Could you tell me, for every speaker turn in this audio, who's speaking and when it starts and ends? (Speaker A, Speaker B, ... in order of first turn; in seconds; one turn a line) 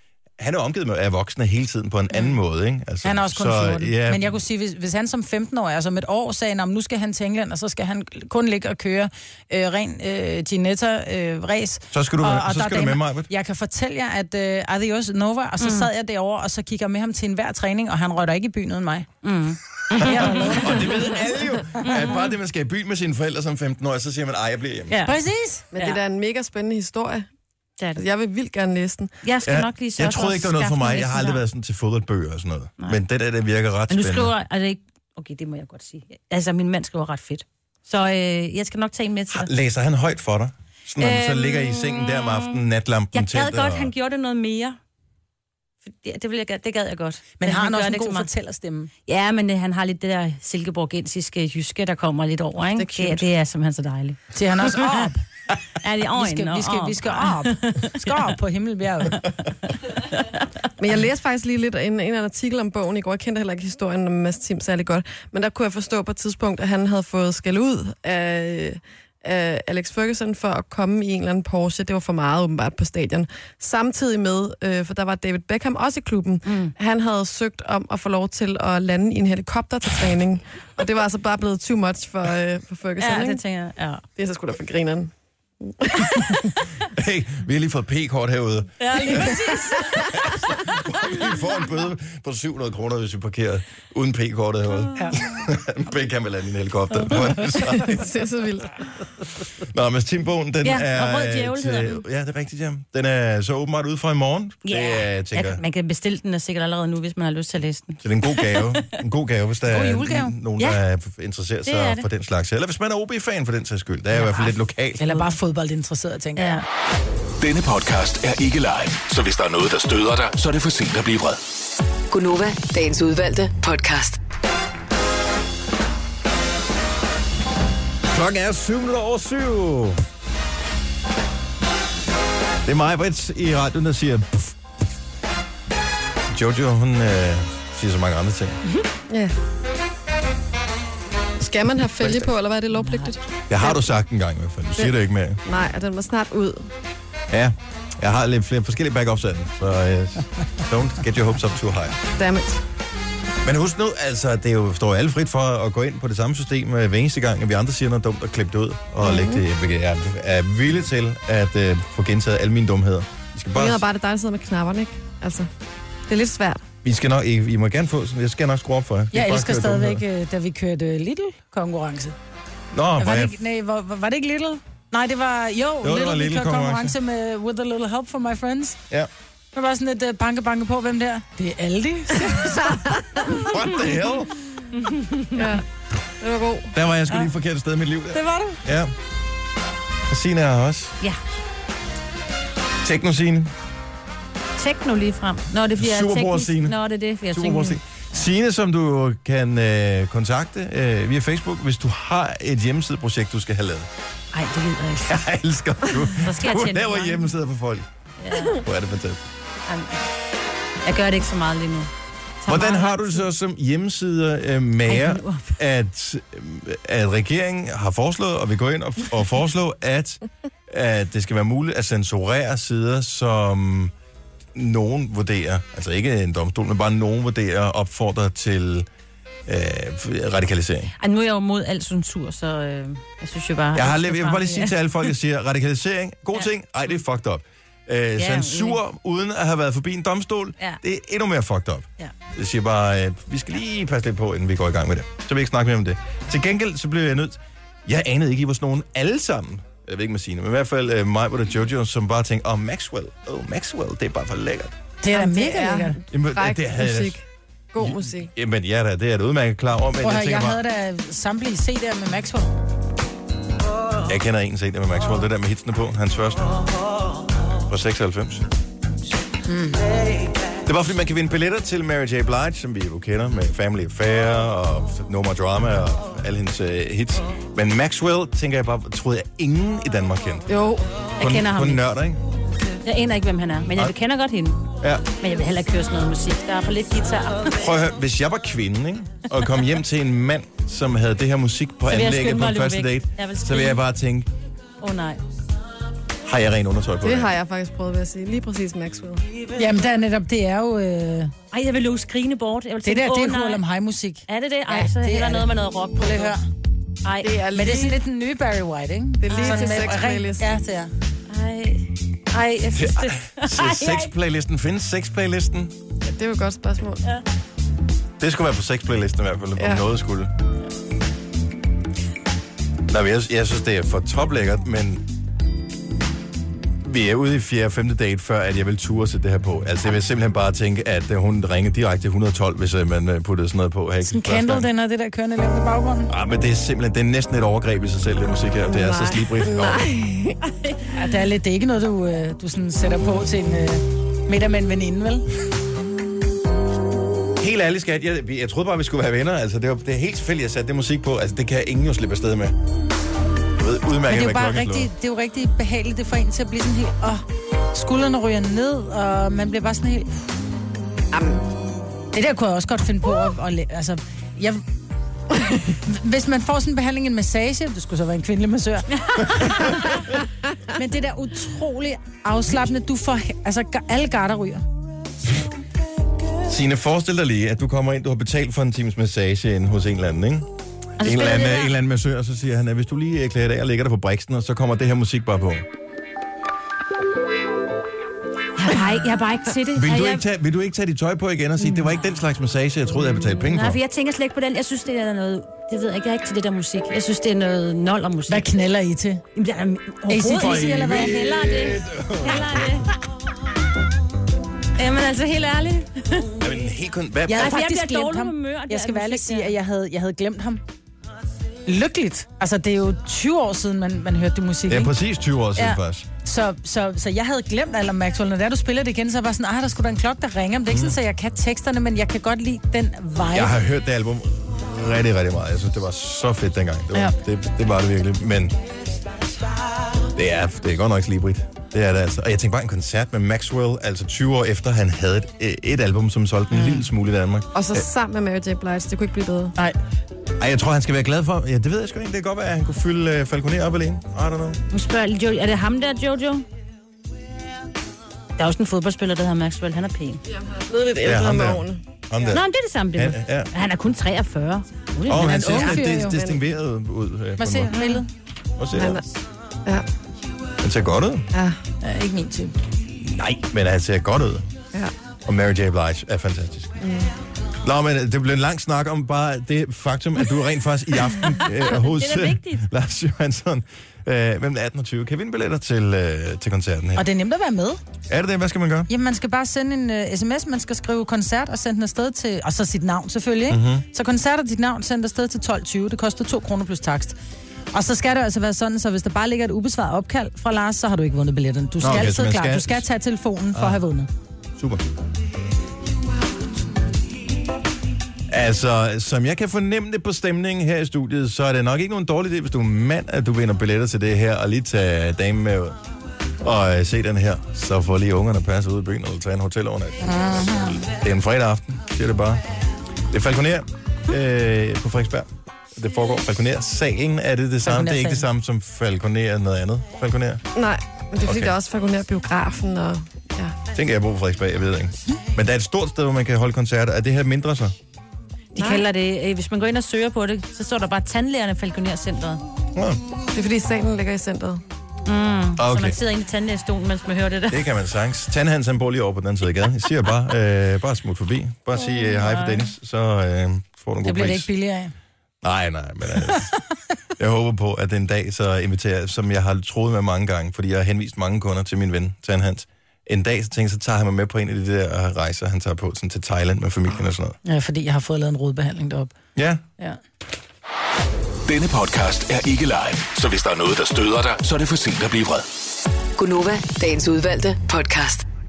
Speaker A: 0.4-4.4
Speaker B: 3.0-19.1
Speaker A: 11.9-13.3
Speaker C: 15.6-15.9
Speaker C: 19.2-20.7
Speaker B: 20.0-21.1
Speaker A: 20.0-25.0
Speaker C: 21.8-22.3
Speaker C: 24.9-25.2
Speaker B: 25.1-25.7
Speaker D: 25.7-27.3
Speaker D: 27.9-29.1
Speaker C: 29.2-31.4
Speaker A: 29.4-34.3
Speaker C: 33.9-39.5
Speaker A: 39.3-43.9
Speaker C: 41.0-44.8
Speaker C: 45.9-48.3
Speaker B: 47.4-48.9
Speaker C: 49.1-55.1
Speaker D: 52.8-53.3
Speaker B: 54.3-55.2
Speaker C: 55.8-58.3
Speaker B: 56.2-59.4
Speaker D: 60.8-83.4
Speaker C: 76.5-76.7
Speaker C: 83.0-84.0
Speaker D: 84.2-86.5
Speaker A: 86.9-89.4
Speaker C: 88.8-90.5
Speaker A: 90.1-98.0
Speaker B: 95.0-95.3
Speaker D: 97.7-99.0
Speaker A: 99.6-105.6
Speaker C: 100.6-102.0
Speaker C: 104.7-108.8
Speaker A: 108.0-115.0
Speaker B: 109.7-110.4
Speaker C: 111.7-112.0
Speaker B: 115.0-116.6
Speaker C: 116.4-116.7
Speaker E: 117.4-121.4
Speaker F: 122.1-124.2
Speaker A: 128.1-130.0
Speaker A: 132.7-134.5
Speaker A: 136.3-138.6
Speaker D: 139.1-139.3
Speaker D: 141.4-143.7
Speaker C: 142.8-143.1
Speaker A: 143.5-145.4
Speaker D: 144.8-146.7
Speaker A: 147.3-152.0
Speaker D: 152.2-152.6
Speaker A: 153.4-163.8
Speaker D: 159.0-159.4
Speaker D: 163.5-165.5
Speaker D: 166.1-166.7
Speaker A: 166.8-170.0
Speaker B: 169.1-172.2
Speaker A: 172.7-173.4
Speaker B: 173.0-178.8
Speaker A: 175.8-176.9
Speaker B: 179.5-183.0
Speaker D: 182.8-183.2
Speaker A: 183.4-184.3
Speaker C: 184.8-185.4
Speaker D: 185.3-185.6
Speaker D: 186.2-186.7
Speaker A: 186.7-188.9
Speaker B: 188.2-188.6
Speaker A: 190.1-191.0
Speaker A: 192.8-193.5
Speaker C: 194.6-198.2
Speaker A: 195.8-196.8
Speaker A: 197.3-203.9
Speaker C: 204.3-205.3
Speaker A: 205.1-207.9
Speaker C: 206.1-207.3
Speaker C: 208.2-208.6
Speaker A: 208.5-209.2
Speaker C: 209.7-210.0
Speaker C: 210.8-211.9
Speaker C: 212.4-213.3
Speaker A: 212.5-223.9
Speaker C: 214.9-215.6
Speaker A: 224.6-228.9
Speaker A: 229.5-230.9
Speaker C: 231.0-235.1
Speaker A: 233.8-254.7
Speaker C: 238.2-238.8
Speaker B: 255.0-256.0
Speaker D: 255.1-258.3
Speaker A: 256.1-257.2
Speaker A: 257.8-260.6
Speaker B: 260.0-262.5
Speaker A: 264.1-266.6
Speaker A: 267.7-268.5
Speaker B: 269.5-269.8
Speaker A: 270.6-280.5
Speaker D: 280.5-280.9
Speaker C: 281.2-281.9
Speaker A: 281.2-282.2
Speaker C: 282.8-287.6
Speaker A: 287.5-294.3
Speaker C: 291.9-293.8
Speaker C: 294.8-295.2
Speaker A: 296.2-297.3
Speaker D: 297.0-299.2
Speaker B: 299.6-301.3
Speaker C: 301.5-303.6
Speaker B: 302.8-306.4
Speaker C: 304.3-306.4
Speaker C: 307.0-307.4
Speaker D: 307.2-308.0
Speaker B: 307.5-310.9
Speaker D: 309.2-310.5
Speaker C: 309.3-309.9
Speaker C: 311.3-314.1
Speaker A: 312.7-315.8
Speaker D: 316.0-317.0
Speaker A: 318.2-320.3
Speaker D: 319.6-319.8
Speaker A: 322.9-325.0
Speaker A: 326.8-334.7
Speaker B: 334.1-336.1
Speaker A: 336.1-339.9
Speaker D: 338.7-340.4
Speaker B: 340.9-345.3
Speaker A: 347.4-352.6
Speaker A: 353.6-354.9
Speaker B: 354.1-360.1
Speaker D: 361.1-361.4
Speaker B: 362.1-364.6
Speaker B: 365.7-370.1
Speaker B: 370.7-374.6
Speaker A: 376.5-380.5
Speaker C: 381.0-381.7
Speaker A: 381.0-385.7
Speaker C: 388.6-390.2
Speaker A: 389.8-393.8
Speaker C: 391.6-392.0
Speaker C: 393.2-398.5
Speaker B: 398.3-399.2
Speaker C: 399.4-402.9
Speaker B: 400.1-401.6
Speaker A: 400.3-402.9
Speaker C: 404.8-406.3
Speaker A: 406.4-407.6
Speaker B: 407.3-410.6
Speaker C: 407.3-409.6
Speaker B: 411.7-414.9
Speaker A: 414.7-416.1
Speaker B: 415.6-423.6
Speaker A: 420.7-421.0
Speaker A: 423.3-428.5
Speaker A: 430.1-437.9
Speaker D: 437.5-439.6
Speaker A: 440.4-444.6
Speaker C: 444.7-446.4
Speaker C: 448.4-450.2
Speaker D: 450.3-451.8
Speaker A: 451.0-452.4
Speaker C: 452.3-455.9
Speaker A: 452.9-453.5
Speaker A: 455.1-457.7
Speaker B: 455.1-456.4
Speaker B: 457.4-458.1
Speaker C: 457.7-458.0
Speaker A: 458.6-459.0
Speaker D: 458.7-459.1
Speaker A: 460.6-461.3
Speaker D: 461.3-461.6
Speaker B: 461.8-462.5
Speaker A: 463.0-464.5
Speaker A: 465.3-466.7
Speaker D: 466.8-467.1
Speaker A: 467.6-477.1
Speaker C: 471.5-472.6
Speaker B: 477.0-477.8
Speaker A: 478.1-478.9
Speaker B: 478.9-487.2
Speaker A: 483.5-483.9
Speaker B: 487.7-494.1
Speaker A: 491.8-492.9
Speaker A: 493.5-493.8
Speaker A: 494.6-494.8
Speaker A: 498.3-505.8
Speaker A: 506.4-512.4
Speaker B: 510.0-510.8
Speaker A: 513.1-520.4
Speaker B: 517.6-518.3
Speaker D: 520.5-523.5
Speaker A: 521.2-521.5
Speaker A: 523.7-527.8
Speaker D: 528.5-528.9
Speaker C: 528.5-532.4
Speaker A: 532.8-533.0
Speaker D: 533.3-534.6
Speaker C: 535.1-537.7
Speaker A: 535.6-536.0
Speaker A: 537.5-544.5
Speaker C: 541.8-542.7
Speaker B: 544.0-544.9
Speaker A: 545.4-546.5
Speaker A: 547.2-557.4
Speaker B: 557.5-559.1
Speaker A: 559.4-559.6
Speaker E: 561.5-565.5
Speaker F: 566.2-568.2